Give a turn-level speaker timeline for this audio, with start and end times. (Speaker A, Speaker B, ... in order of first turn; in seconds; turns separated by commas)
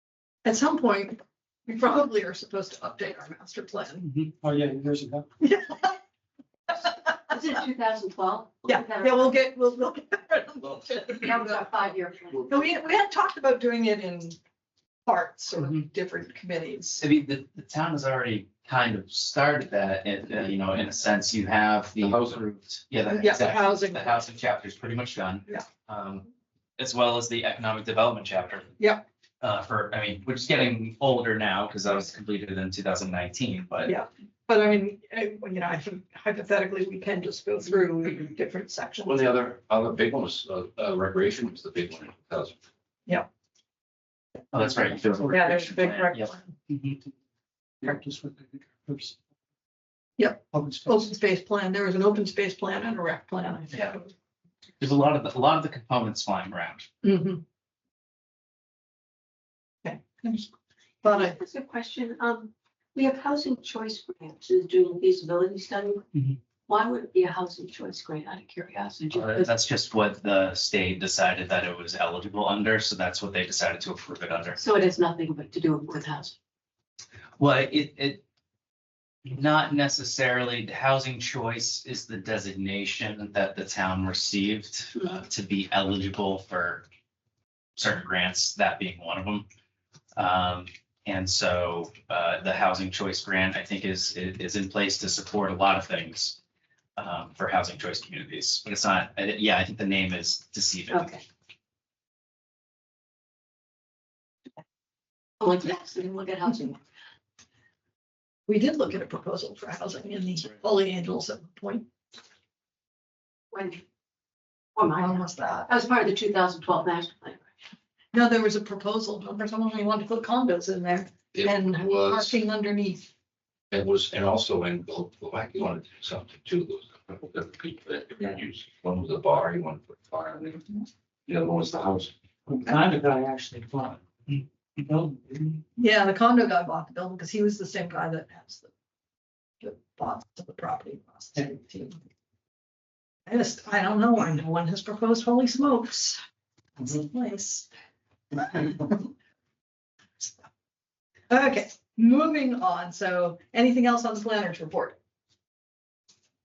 Speaker A: 0.4-4.1, Speaker B: 4.4-5.2, Speaker A: 5.4-6.0, Speaker A: 6.7-7.3, Speaker C: 7.3-9.4, Speaker A: 8.7-11.8, Speaker C: 11.1-12.6, Speaker A: 12.4-14.4, Speaker A: 15.1-17.0, Speaker D: 15.6-15.8, Speaker D: 17.0-26.3, Speaker E: 22.0-22.4, Speaker A: 23.1-24.3, Speaker D: 26.8-28.7, Speaker D: 29.4-34.0, Speaker A: 33.8-39.3, Speaker E: 39.0-42.6, Speaker D: 44.5-47.0, Speaker A: 45.3-46.5, Speaker B: 47.8-49.1, Speaker A: 50.2-54.1, Speaker B: 50.5-51.0, Speaker D: 54.8-56.9, Speaker A: 57.0-57.4, Speaker A: 59.8-60.5, Speaker A: 61.0-61.4, Speaker C: 61.0-66.0, Speaker D: 66.1-66.4, Speaker C: 66.7-69.5, Speaker D: 69.1-74.6, Speaker C: 74.6-76.3, Speaker D: 77.4-78.2, Speaker D: 79.2-86.8, Speaker D: 87.8-89.5, Speaker D: 90.1-96.4, Speaker D: 97.0-101.2, Speaker C: 100.9-101.2, Speaker C: 105.4-106.8, Speaker A: 108.5-111.9, Speaker C: 113.5-113.8, Speaker C: 114.8-117.4, Speaker A: 114.9-115.7, Speaker A: 118.1-123.1, Speaker E: 121.3-122.4, Speaker E: 123.7-130.6, Speaker E: 131.3-132.1, Speaker B: 132.5-135.6, Speaker A: 135.8-138.7, Speaker A: 139.6-142.0, Speaker A: 143.2-146.2, Speaker A: 146.8-147.7, Speaker A: 148.3-149.1, Speaker A: 151.3-155.0